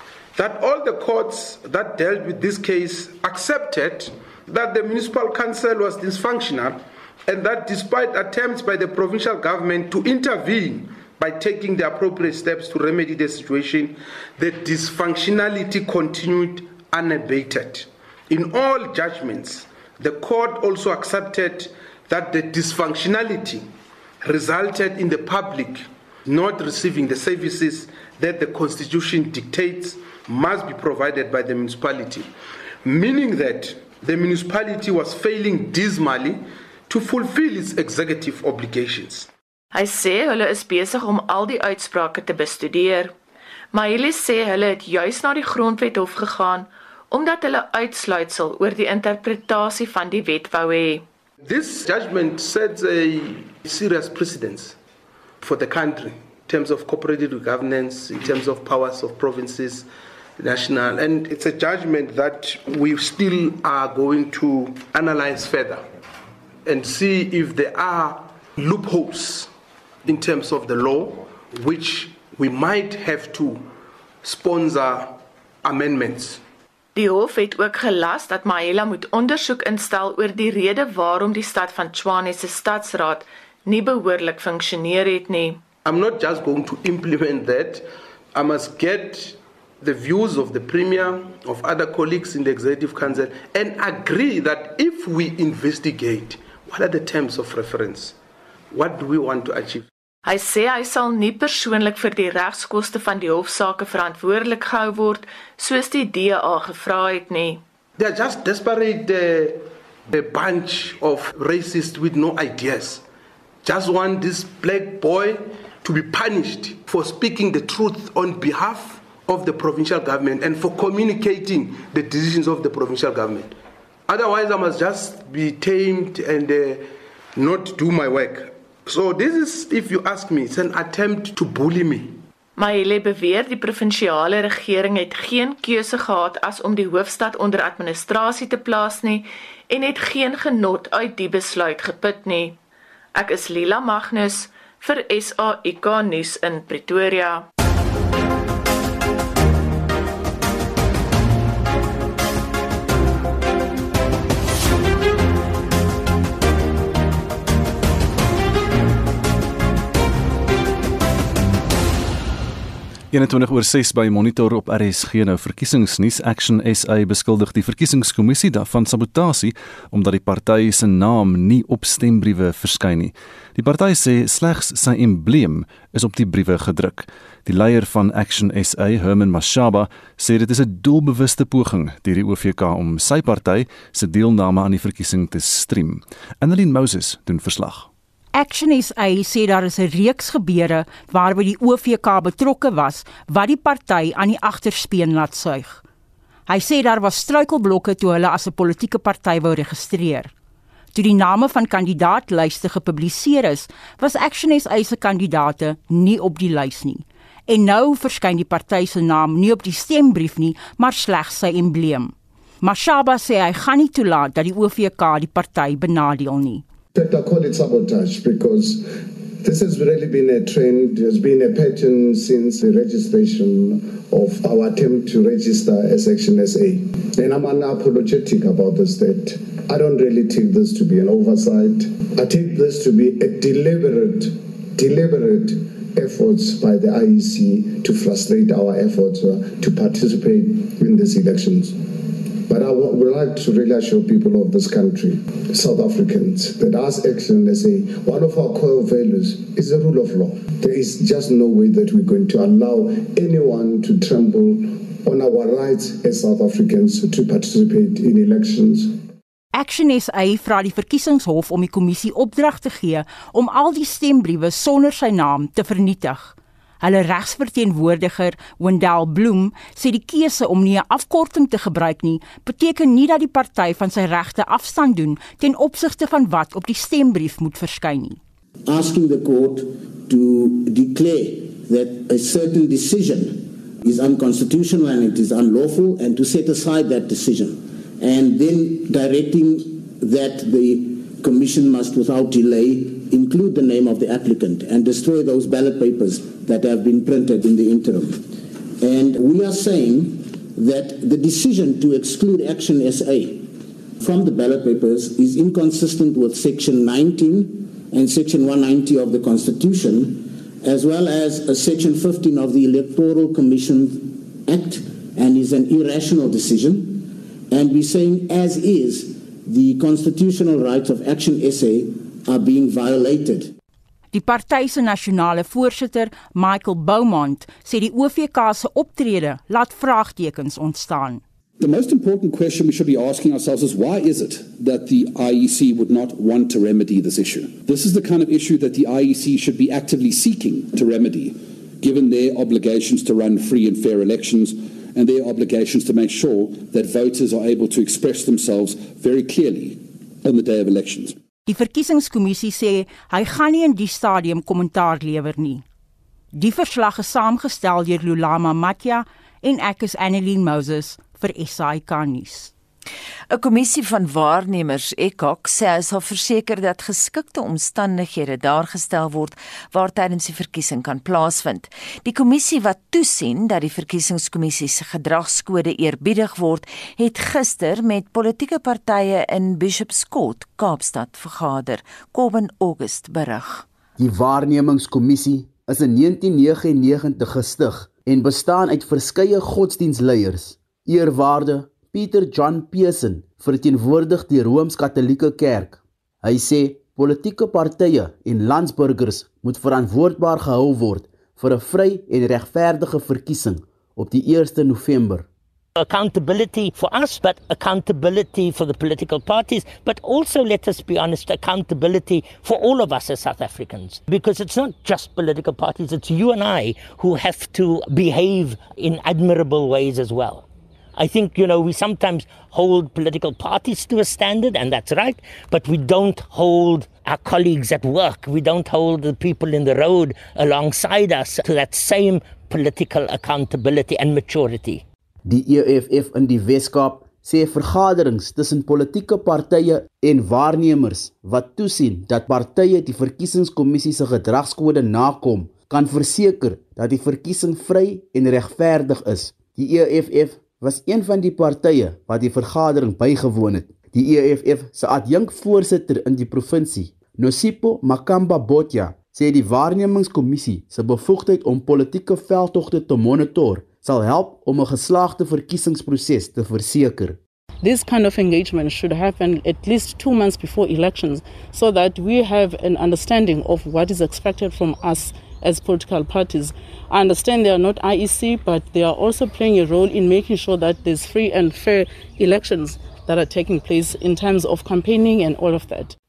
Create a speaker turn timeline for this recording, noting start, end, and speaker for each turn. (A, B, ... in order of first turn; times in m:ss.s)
0:00.4-0:23.7 A
0:24.2-0:32.3 A
0:32.8-0:39.3 A
0:39.7-0:43.1 B
0:43.7-0:51.0 B
0:51.4-0:54.8 A
0:55.4-0:59.9 A
1:00.4-1:05.8 A
1:06.6-1:09.5 A
1:10.0-1:13.7 A
1:14.2-1:16.4 A
1:17.0-1:25.6 B
1:25.8-1:38.2 A
1:38.7-1:39.9 A
1:40.2-1:47.6 B
1:48.0-1:53.0 A
1:53.6-2:03.6 A
2:04.1-2:12.2 A
2:12.6-2:22.6 B
2:23.2-2:27.4 B
2:43.1-3:07.9 C
3:08.3-3:15.8 D
3:16.5-3:20.3 D
3:21.0-3:36.6 D
3:37.0-4:01.8 E
4:02.5-4:19.0 E
4:19.5-4:38.2 D
4:38.7-4:58.3 F
4:58.8-5:23.5 F
5:24.1-5:31.2 D
5:31.6-5:51.2 G
5:51.5-5:55.6 D
5:56.3-6:02.5 D
6:03.3-6:23.7 H
6:24.0-6:45.3 I
6:45.8-7:14.8 J
7:15.2-7:47.2 I
7:47.6-8:06.0 K